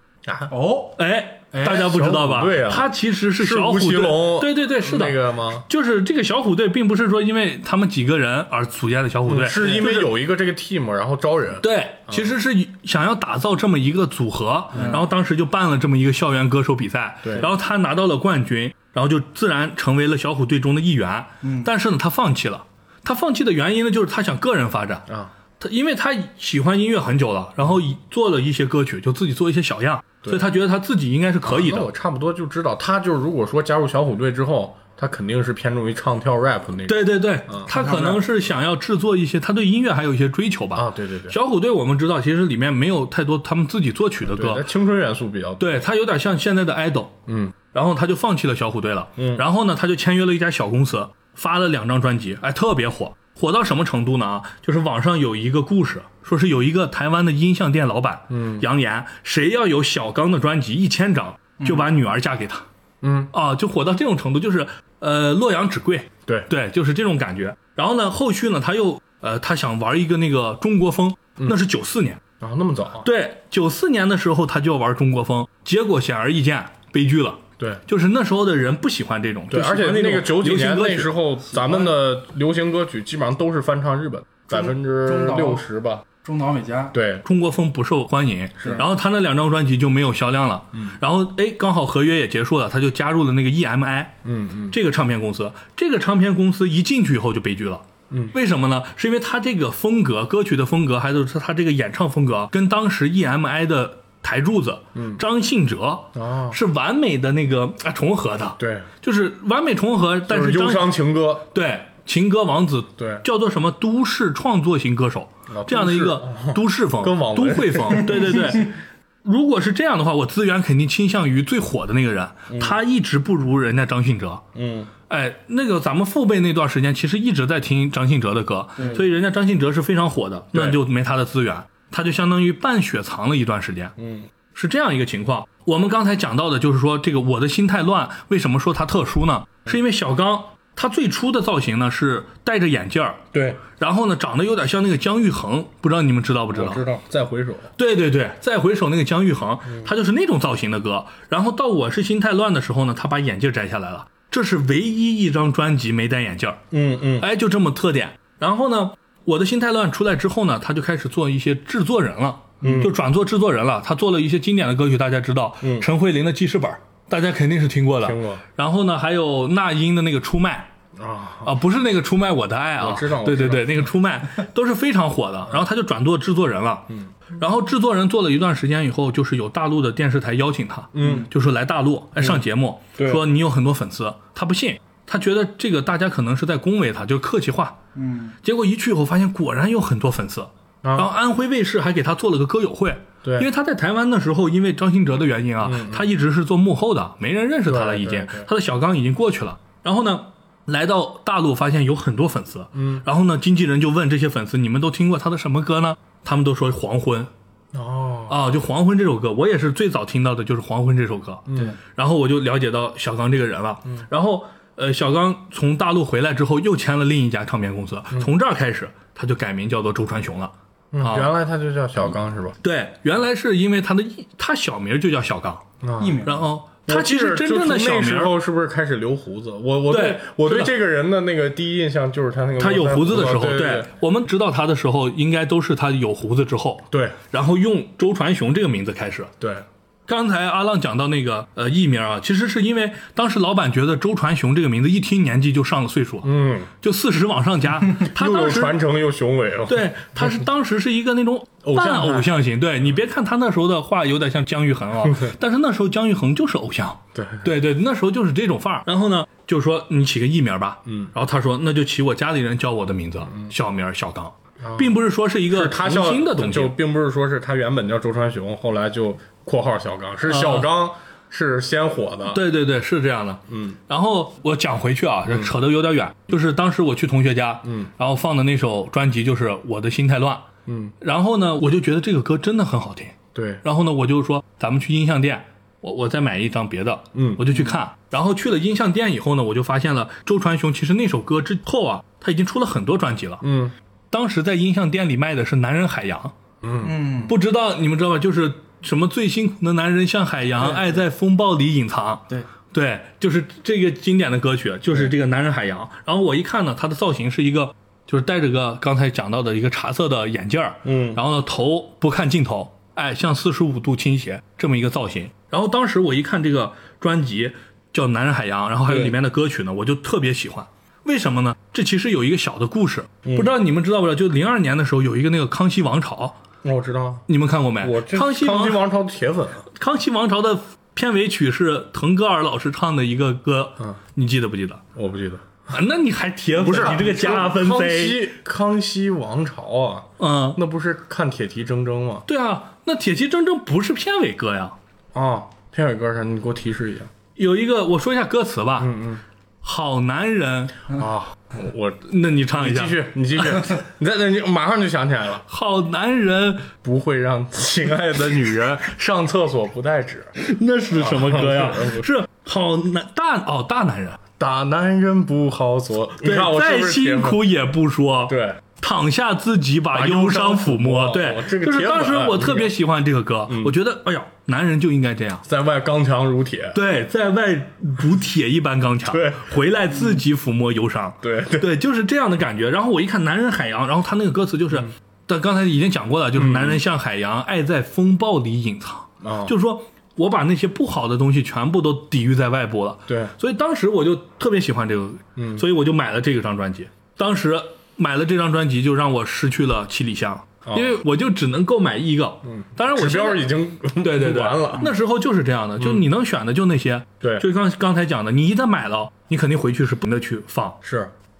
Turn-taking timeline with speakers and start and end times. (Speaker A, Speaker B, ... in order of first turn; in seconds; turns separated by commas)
Speaker A: 0.2-0.5, Speaker B: 0.5-0.9, Speaker C: 0.9-10.1, Speaker A: 1.6-5.7, Speaker A: 9.2-12.3, Speaker B: 9.5-9.9, Speaker C: 11.6-31.9, Speaker A: 14.7-15.0, Speaker B: 14.8-15.0, Speaker A: 17.2-17.5, Speaker A: 31.4-38.2, Speaker C: 36.9-44.6, Speaker B: 37.7-38.1, Speaker A: 40.7-41.4, Speaker A: 44.3-45.8, Speaker C: 45.6-62.6, Speaker A: 47.3-47.5, Speaker A: 49.1-49.4, Speaker A: 58.3-58.6, Speaker A: 63.0-63.3, Speaker C: 63.3-72.2, Speaker A: 72.4-73.0, Speaker C: 73.0-81.1, Speaker A: 79.5-86.0, Speaker B: 81.5-81.9, Speaker B: 84.5-85.6, Speaker B: 86.2-86.9, Speaker A: 86.9-87.2, Speaker C: 87.2-94.2, Speaker A: 88.6-88.8, Speaker A: 94.2-94.8, Speaker C: 94.7-110.9, Speaker A: 104.9-105.2, Speaker A: 106.1-106.6, Speaker A: 108.6-108.9, Speaker A: 110.3-111.5, Speaker C: 111.5-124.4, Speaker A: 113.0-113.2, Speaker A: 115.5-118.5, Speaker A: 122.5-122.8, Speaker A: 124.5-124.9, Speaker C: 125.1-133.9, Speaker A: 130.5-130.8, Speaker A: 134.0-134.3, Speaker C: 134.5-146.8, Speaker A: 143.3-143.6, Speaker A: 146.5-147.7, Speaker C: 147.8-156.6, Speaker A: 156.7-157.3, Speaker C: 157.2-170.7, Speaker A: 162.6-162.9, Speaker A: 165.6-165.9, Speaker A: 168.0-168.4, Speaker A: 171.0-171.5, Speaker C: 171.4-187.8, Speaker A: 172.8-173.9, Speaker A: 180.9-181.3, Speaker B: 181.0-181.2, Speaker A: 183.0-183.2, Speaker B: 187.9-188.4, Speaker C: 188.4-207.3, Speaker A: 190.8-191.1, Speaker A: 193.2-193.5, Speaker A: 195.6-196.1, Speaker A: 197.7-198.5, Speaker A: 202.8-203.0, Speaker A: 207.7-208.4, Speaker C: 208.3-221.3, Speaker A: 211.5-211.8, Speaker A: 220.9-222.6, Speaker C: 222.6-225.7, Speaker A: 225.8-226.2, Speaker B: 226.0-226.4, Speaker C: 226.2-228.3, Speaker A: 226.9-233.9, Speaker C: 229.9-230.7, Speaker C: 232.6-239.3, Speaker A: 236.9-237.2, Speaker C: 240.1-248.8, Speaker A: 246.2-246.7, Speaker A: 247.9-250.4, Speaker C: 249.7-266.8, Speaker A: 251.6-252.3, Speaker A: 255.1-255.3, Speaker A: 257.1-257.5, Speaker A: 260.9-261.1, Speaker A: 264.6-272.4, Speaker C: 270.2-270.7, Speaker C: 272.3-280.5, Speaker A: 273.5-273.8, Speaker A: 280.6-280.9, Speaker C: 281.0-293.4, Speaker A: 283.4-283.6, Speaker A: 287.1-287.5, Speaker A: 293.4-293.7, Speaker C: 294.1-296.3, Speaker A: 296.6-296.9, Speaker B: 296.8-297.4, Speaker C: 297.2-326.4, Speaker A: 310.9-311.2, Speaker A: 318.9-319.1, Speaker A: 323.2-323.5, Speaker A: 326.6-327.2, Speaker C: 327.3-328.8, Speaker A: 327.8-329.6, Speaker C: 329.7-334.9, Speaker A: 334.9-335.5, Speaker C: 335.7-338.3, Speaker A: 336.6-342.2, Speaker C: 340.2-340.6, Speaker C: 342.3-344.8, Speaker A: 345.1-347.1, Speaker C: 347.4-348.9, Speaker A: 348.8-349.2, Speaker C: 349.6-350.8, Speaker A: 350.9-355.4, Speaker C: 352.1-353.7, Speaker C: 355.5-356.7, Speaker A: 356.8-360.3, Speaker C: 360.4-364.2, Speaker A: 360.9-362.1, Speaker A: 364.4-367.4, Speaker C: 366.2-375.4, Speaker A: 368.3-368.6, Speaker A: 369.9-372.7, Speaker A: 373.5-373.8, Speaker A: 375.4-376.8, Speaker C: 376.7-403.5, Speaker A: 379.0-380.1, Speaker A: 381.2-381.7, Speaker A: 386.4-386.8, Speaker A: 389.2-389.5, Speaker A: 393.1-393.3, Speaker A: 395.4-395.6, Speaker A: 400.6-401.0, Speaker A: 402.4-404.9, Speaker C: 404.0-410.8, Speaker A: 405.8-406.0, Speaker A: 410.8-411.1